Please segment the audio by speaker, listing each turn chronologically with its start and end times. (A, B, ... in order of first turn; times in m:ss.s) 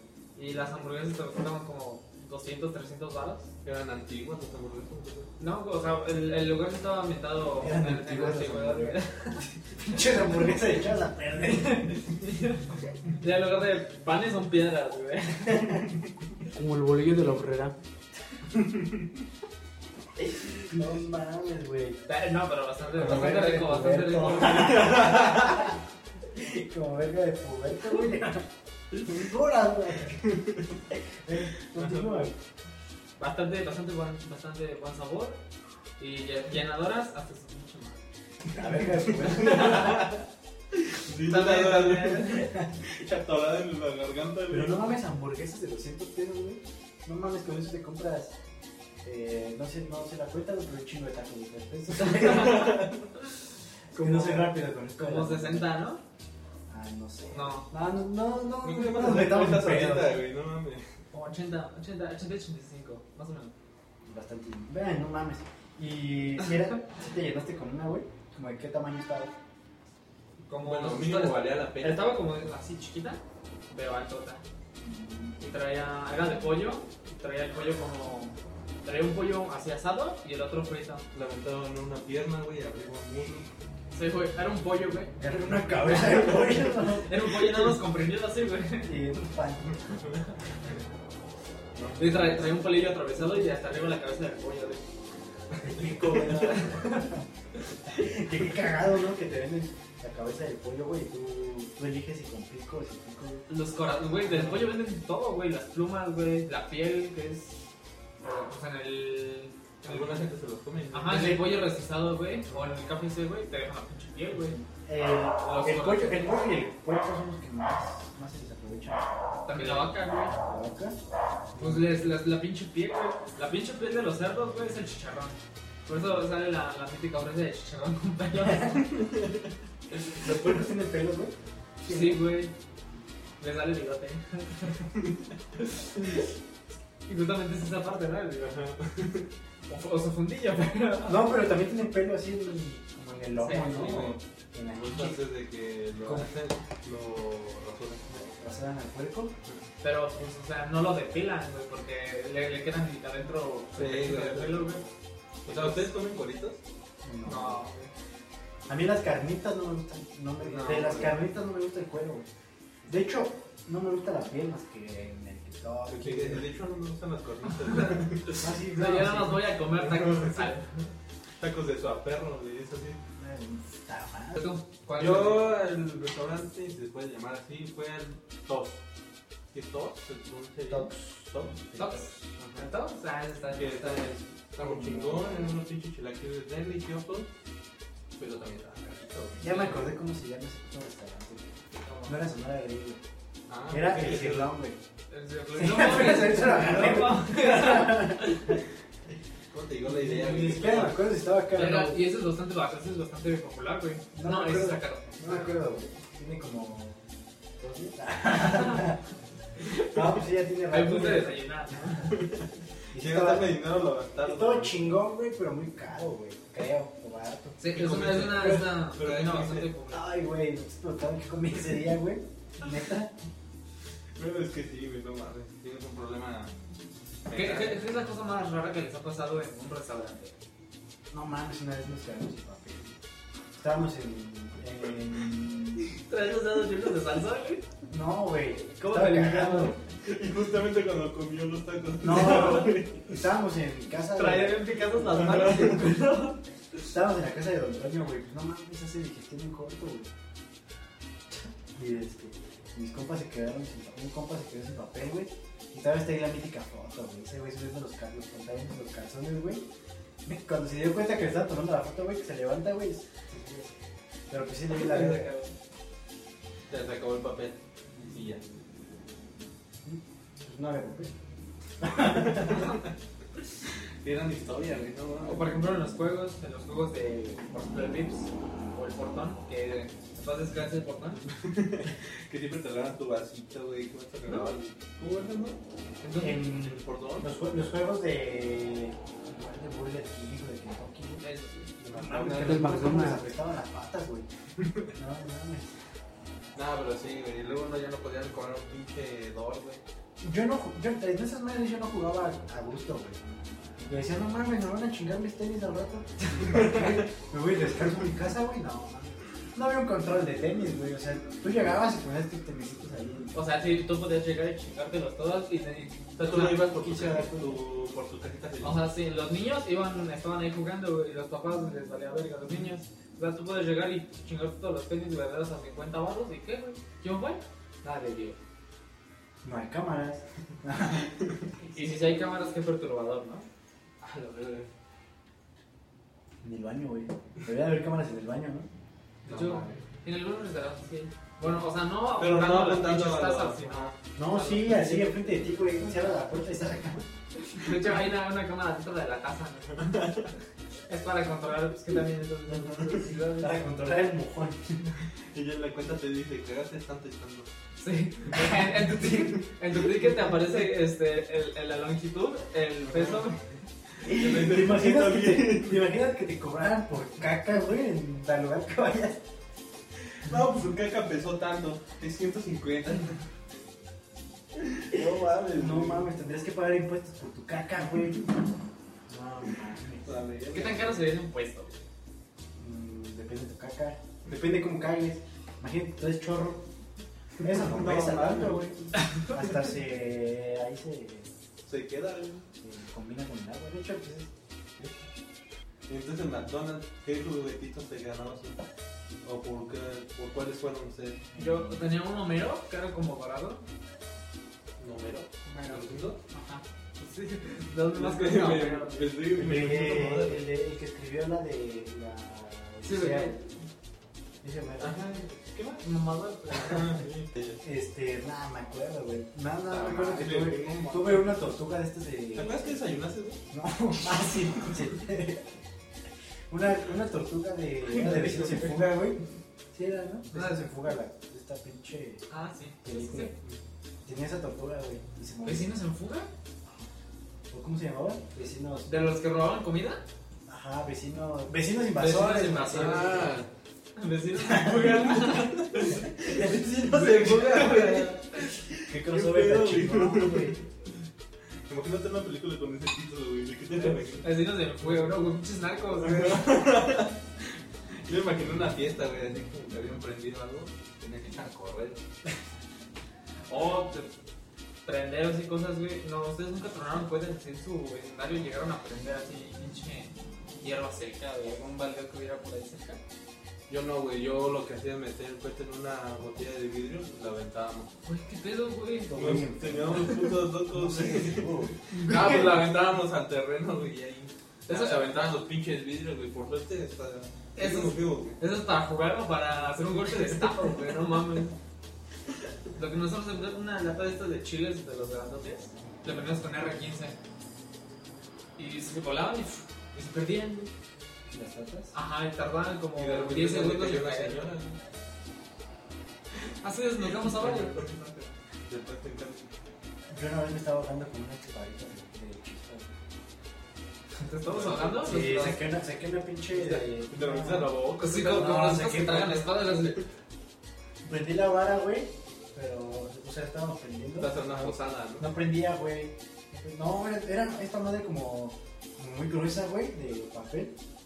0:00.4-0:03.5 A
0:03.6-0:05.3 B
0:05.4-0:09.4 A
0:07.6-0:12.0 C
0:11.4-0:15.8 A
0:15.5-0:15.8 C
0:16.6-0:17.8 D
0:20.7-0:22.0 C
0:22.1-0:25.2 A
0:22.9-0:25.8 C
0:26.3-0:30.3 C
0:30.9-0:32.4 C
0:31.8-0:32.3 B
0:33.2-0:35.4 A
0:36.0-0:38.0 A
0:38.5-0:40.1 C
0:39.2-0:40.2 B
0:39.4-0:39.9 A
0:41.0-0:45.0 B
0:41.2-0:42.5 A
0:44.5-0:48.3 C
0:49.0-0:52.8 C
0:52.1-0:53.0 B
0:53.9-0:55.7 C
0:53.9-0:56.0 A
0:56.7-1:00.2 C
0:57.3-0:57.7 A
0:58.6-1:00.8 B
1:01.1-1:03.6 A
1:04.1-1:09.3 C
1:10.4-1:14.4 A
1:10.6-1:12.1 B
1:14.8-1:15.4 C
1:15.4-1:21.0 A
1:21.1-1:23.5 B
1:23.9-1:25.2 A
1:25.2-1:27.2 C
1:27.0-1:29.2 A
1:28.8-1:29.8 C
1:31.8-1:32.3 B
1:31.8-1:32.5 C
1:32.0-1:34.8 A
1:35.6-1:36.6 B
1:35.6-1:37.2 C
1:36.1-1:37.1 A
1:37.9-1:43.5 C
1:43.5-1:47.6 A
1:44.2-1:44.7 C
1:48.2-1:50.3 A
1:49.8-1:51.4 B
1:50.9-1:54.6 A
1:51.1-1:51.4 C
1:54.7-1:59.9 C
1:55.4-1:56.4 A
1:59.5-2:00.4 A
2:00.4-2:01.0 C
2:01.5-2:02.0 C
2:01.6-2:09.0 A
2:08.4-2:08.8 C
2:10.1-2:12.3 C
2:11.8-2:12.5 A
2:13.4-2:14.9 A
2:15.6-2:16.3 A
2:17.1-2:18.5 A
2:18.4-2:19.3 B
2:19.7-2:21.2 A
2:21.0-2:25.2 C
2:23.4-2:24.1 A
2:23.6-2:24.2 B
2:24.8-2:28.0 B
2:28.1-2:29.4 C
2:29.8-2:34.8 A
2:33.8-2:34.8 B
2:35.4-2:36.6 B
2:35.5-2:35.8 A
2:37.0-2:37.6 C
2:37.2-2:37.9 A
2:38.7-2:42.3 C
2:40.4-2:41.2 B
2:42.9-2:46.5 C
2:45.9-2:48.3 B
2:47.7-2:50.9 A
2:48.4-2:49.6 C
2:49.8-2:50.5 B
2:51.4-2:53.0 B
2:53.2-2:54.4 C
2:54.4-2:55.5 A
2:55.0-2:58.8 B
2:59.5-3:01.6 B
3:00.7-3:02.3 C
3:01.8-3:04.2 A
3:02.4-3:02.7 B
3:03.5-3:07.3 B
3:04.6-3:05.6 C
3:08.2-3:09.6 B
3:09.4-3:11.5 C
3:09.5-3:09.8 A
3:11.8-3:12.2 A
3:12.1-3:13.0 C
3:13.5-3:14.5 B
3:13.7-3:14.8 C
3:15.1-3:18.6 A
3:15.5-3:18.6 C
3:19.5-3:21.0 B
3:19.9-3:22.0 C
3:21.5-3:25.5 A
3:24.1-3:27.0 C
3:27.6-3:29.0 C
3:29.6-3:30.0 A
3:29.9-3:31.4 C
3:30.7-3:32.2 A
3:32.1-3:34.8 B
3:32.9-3:33.6 C
3:34.2-3:37.6 C
3:37.6-3:40.0 A
3:37.7-3:39.7 B
3:39.9-3:43.1 C
3:44.2-3:46.6 B
3:47.3-3:47.8 B
3:47.3-3:50.4 A
3:51.1-3:53.0 C
3:53.6-3:55.9 C
3:56.0-3:57.6 A
3:57.9-3:59.8 C
3:58.8-3:59.8 A
4:00.0-4:03.1 B
4:02.0-4:04.6 C
4:04.2-4:06.4 A
4:05.3-4:05.8 B
4:06.9-4:10.1 C
4:11.7-4:19.7 C
4:20.2-4:23.8 C
4:24.3-4:25.3 C
4:24.7-4:25.5 A
4:26.7-4:28.4 B
4:29.8-4:31.1 C
4:31.8-4:32.7 C
4:32.0-4:32.9 B
4:34.0-4:35.5 B
4:35.2-4:41.2 A
4:41.3-4:45.6 B
4:44.3-4:44.6 A
4:46.0-4:46.4 A
4:46.2-4:51.2 C
4:46.5-4:47.3 B
4:51.2-4:51.7 A
4:51.8-4:54.3 C
4:51.9-4:52.8 B
4:52.3-4:53.3 D
4:54.6-4:54.9 B
4:55.0-4:55.7 C
4:56.6-4:59.8 B
5:00.2-5:03.2 C
5:03.8-5:13.4 C
5:06.5-5:07.0 B
5:13.3-5:16.9 A
5:16.2-5:18.9 B
5:16.7-5:17.6 C
5:18.6-5:28.4 A
5:29.4-5:31.1 C
5:31.7-5:33.5 A
5:34.0-5:34.7 B
5:36.4-5:38.7 C
5:39.2-5:45.3 A
5:39.3-5:39.7 B
5:39.3-5:39.7 C
5:42.2-5:44.0 B
5:44.2-5:47.1 C
5:47.4-5:50.1 A
5:49.8-5:50.3 B
5:50.9-5:53.6 A
5:52.7-5:52.9 B
5:53.4-5:54.8 C
5:55.3-5:57.5 B
5:57.8-6:03.4 A
5:58.3-5:59.4 B
6:02.8-6:03.4 B
6:04.0-6:09.2 C
6:04.0-6:05.8 B
6:10.2-6:13.2 B
6:14.6-6:16.1 B
6:15.5-6:18.3 C
6:19.1-6:20.2 C
6:20.0-6:21.0 B
6:20.5-6:21.8 A
6:22.6-6:26.7 C
6:27.4-6:31.3 C
6:27.4-6:29.0 B
6:31.7-6:32.5 B
6:32.6-6:34.3 C
6:35.9-6:38.6 B
6:39.2-6:41.3 B
6:41.3-6:41.8 C
6:41.3-6:43.6 A
6:44.8-6:46.2 B
6:46.3-6:49.1 A
6:47.9-6:50.5 B
6:49.3-6:53.5 C
6:52.8-6:53.4 A
6:54.4-6:55.0 C
6:54.8-6:55.4 B
6:55.5-6:57.0 A
6:56.5-6:57.6 B
6:57.6-7:02.8 C
6:59.7-7:01.4 B
7:02.3-7:03.4 B
7:03.5-7:05.5 C
7:06.5-7:09.2 C
7:08.0-7:08.8 B
7:09.7-7:12.2 C
7:10.3-7:10.6 A
7:12.3-7:13.3 A
7:12.8-7:13.4 C
7:14.0-7:15.7 C
7:15.4-7:16.3 A
7:17.5-7:19.1 C
7:18.9-7:20.0 A
7:20.5-7:23.3 C
7:22.0-7:23.3 A
7:22.7-7:23.5 B
7:24.0-7:28.5 A
7:24.5-7:24.9 C
7:25.2-7:25.6 B
7:26.2-7:30.6 B
7:26.2-7:27.7 C
7:28.9-7:30.6 C
7:31.7-7:34.3 B
7:34.2-7:36.6 A
7:36.0-7:37.2 B
7:38.0-7:42.0 B
7:43.5-7:44.1 A
7:44.8-7:53.0 A
7:53.7-7:57.9 B
7:58.0-7:59.4 A
7:59.1-8:01.8 C
7:59.1-8:08.4 B
8:04.7-8:05.3 A
8:07.6-8:11.6 A
8:12.8-8:17.2 A
8:18.6-8:20.7 A
8:21.3-8:21.9 C
8:21.9-8:24.6 A
8:23.0-8:24.8 B
8:26.6-8:28.3 A
8:27.2-8:27.9 B
8:28.7-8:29.5 B
8:30.1-8:32.9 C
8:34.2-8:35.7 A
8:34.5-8:35.2 B
8:35.0-8:39.6 C
8:36.6-8:38.8 B
8:38.0-8:40.0 A
8:39.7-8:40.0 B
8:41.0-8:50.8 C
8:44.2-8:45.3 B